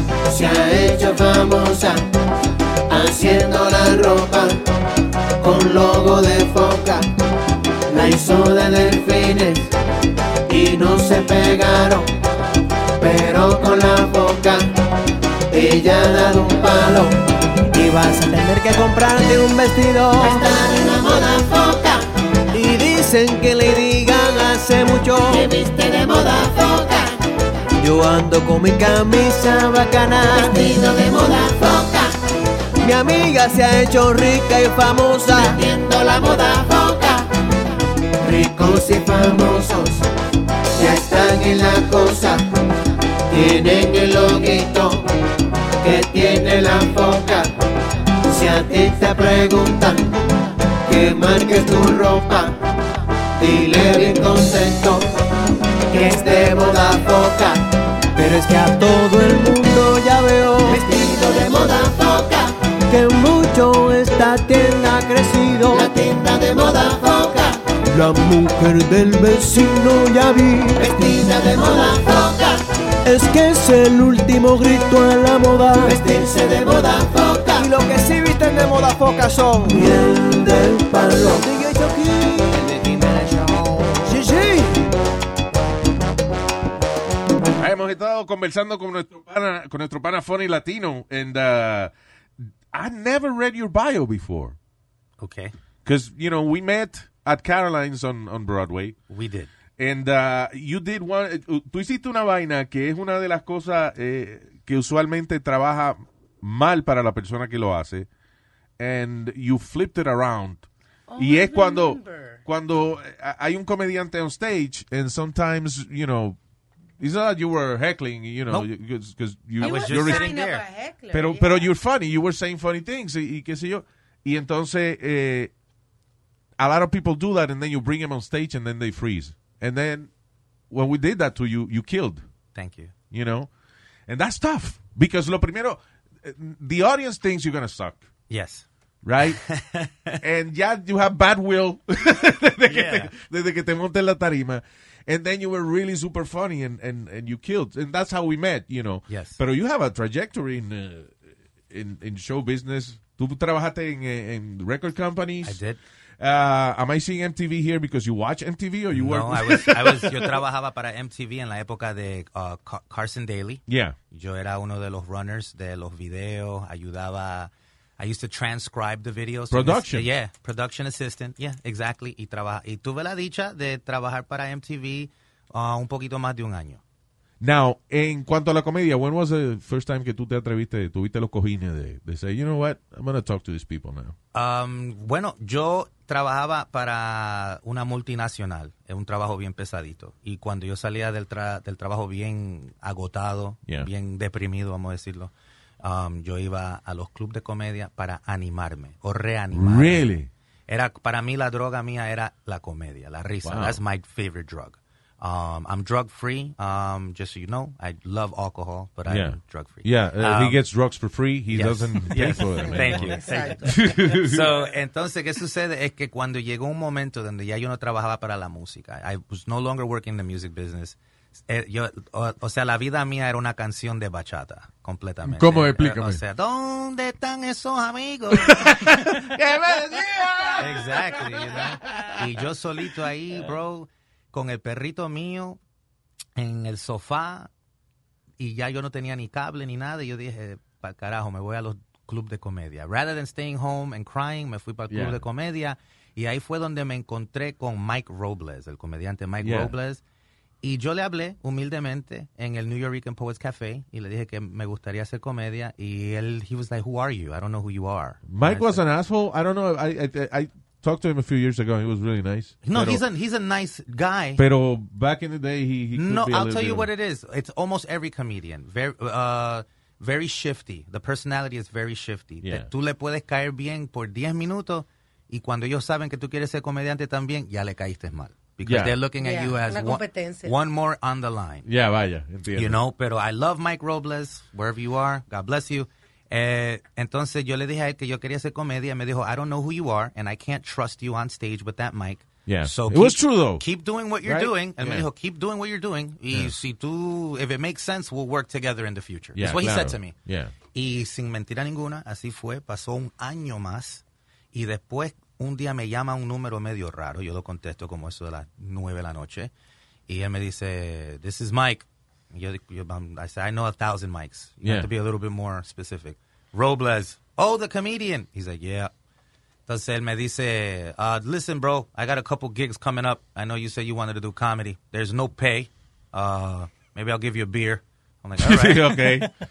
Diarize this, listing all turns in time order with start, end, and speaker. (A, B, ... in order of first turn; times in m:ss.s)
0:00.3-0:02.0 A
0:02.9-0:04.6 A
0:05.4-0:07.0 A
0:07.9-0:09.7 A
0:10.5-0:12.1 A
0:13.0-0:14.6 A
0:15.5-0:17.1 A
0:17.7-0:20.3 B
0:20.2-0:22.0 A
0:22.5-0:25.4 B
0:25.3-0:27.1 A
0:27.8-0:30.3 B
0:30.1-0:32.1 A
0:32.8-0:35.6 B
0:35.3-0:37.2 A
0:38.2-0:40.0 A
0:40.8-0:42.4 A
0:43.3-0:45.0 A
0:45.8-0:47.5 A
0:48.2-0:50.1 A
0:50.9-0:52.5 A
0:53.4-0:55.0 A
0:55.9-0:57.6 A
0:58.2-1:00.8 B
1:00.6-1:02.5 A
1:02.9-1:05.9 B
1:05.7-1:07.6 A
1:07.9-1:10.8 B
1:10.8-1:12.6 A
1:13.0-1:16.0 B
1:15.8-1:17.7 A
1:17.6-1:22.6 B
1:22.5-1:24.2 C
1:24.0-1:24.9 B
1:27.6-1:31.9 D
1:32.7-1:34.6 D
1:35.2-1:35.5 C
1:35.8-1:39.0 D
1:39.1-1:39.5 C
1:39.8-1:48.1 D
1:48.8-1:50.6 D
1:51.1-1:52.4 E
1:51.2-1:56.4 D
1:57.0-2:00.3 D
1:59.6-2:01.7 E
1:59.6-2:00.6 C
2:01.1-2:05.5 D
2:06.6-2:10.1 D
2:10.7-2:12.2 D
2:12.5-2:12.9 C
2:13.1-2:13.5 D
2:14.1-2:18.0 D
2:18.3-2:18.6 C
2:19.0-2:19.4 D
2:19.3-2:20.2 C
2:20.2-2:31.2 D
2:22.7-2:23.1 C
2:29.1-2:29.4 C
2:31.7-2:35.6 D
2:35.4-2:35.8 C
2:36.2-2:40.4 D
2:38.9-2:56.8 C
2:43.7-2:44.0 D
2:49.5-2:50.1 D
2:57.4-3:04.1 D
3:04.3-3:15.3 C
3:15.8-3:20.1 C
3:19.5-3:20.3 D
3:20.7-3:30.6 C
3:23.4-3:23.8 D
3:29.1-3:34.6 D
3:31.5-3:49.0 C
3:32.6-3:34.0 E
3:45.2-3:46.2 D
3:48.3-3:52.4 D
3:50.6-3:55.6 C
3:56.4-3:57.5 C
3:58.4-4:10.0 C
4:04.9-4:05.2 D
4:09.4-4:09.7 D
4:10.6-4:18.8 C
4:18.3-4:23.0 D
4:22.6-4:24.4 C
4:24.4-4:26.9 D
4:25.9-4:41.6 C
4:32.4-4:32.7 D
4:38.6-4:39.0 D
4:39.2-4:40.6 E
4:41.6-4:42.8 D
4:42.5-5:00.1 C
4:52.4-4:53.6 D
4:54.2-4:55.1 D
4:59.4-5:00.5 D
5:00.7-5:04.0 C
5:04.5-5:09.5 C
5:10.1-5:18.9 C
5:14.6-5:14.9 D
5:19.7-5:29.0 C
5:28.4-5:29.3 D